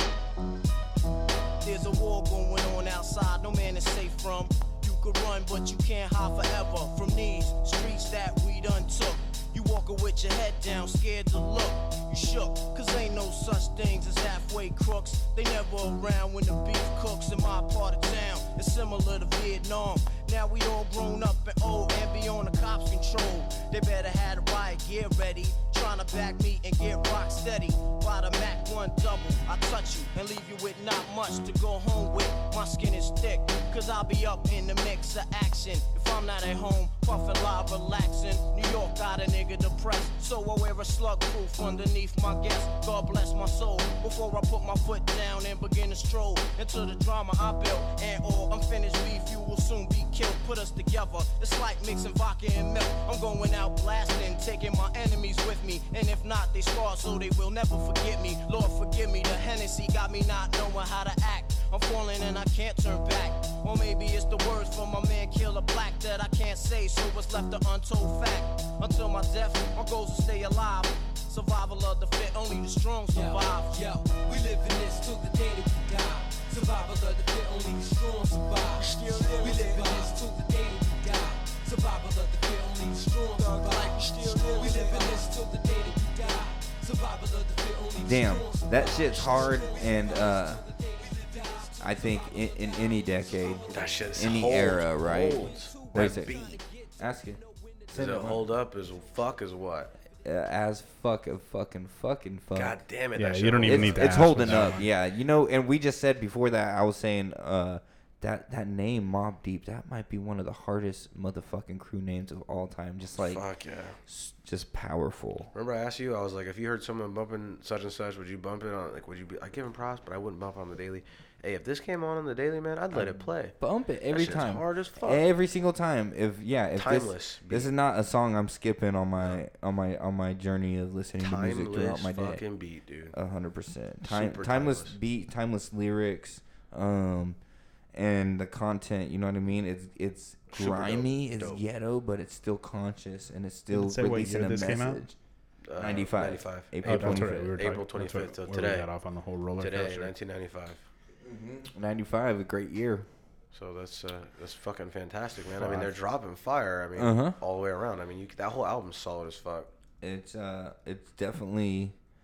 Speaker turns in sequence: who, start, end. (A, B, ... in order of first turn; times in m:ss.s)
0:01.6-1:13.8 A
1:13.1-1:38.0 B
1:18.8-1:20.1 A
1:23.4-1:25.3 A
1:28.0-1:30.6 C
1:31.8-1:36.3 C
1:33.7-1:36.2 D
1:37.0-1:37.4 C
1:37.9-1:38.5 C
1:37.9-1:39.9 D
1:40.2-1:42.8 C
1:42.5-1:44.8 D
1:43.2-1:44.9 E
1:43.6-1:53.4 C
1:53.2-1:54.0 D
1:54.1-1:55.5 C
1:55.5-2:03.5 D
2:02.9-2:12.4 C
2:04.1-2:05.2 D
2:06.8-2:07.7 D
2:11.2-2:13.1 D
2:13.1-2:17.4 C
2:14.0-2:14.9 D
2:17.9-2:25.2 C
2:20.5-2:21.6 D
2:23.7-2:25.0 E
2:25.7-2:28.9 D
2:25.8-2:27.5 C
2:26.8-2:30.1 E
2:29.6-2:30.8 D
2:31.2-2:33.1 C
2:33.5-2:39.7 D
2:37.0-2:37.4 C
2:40.0-2:41.9 C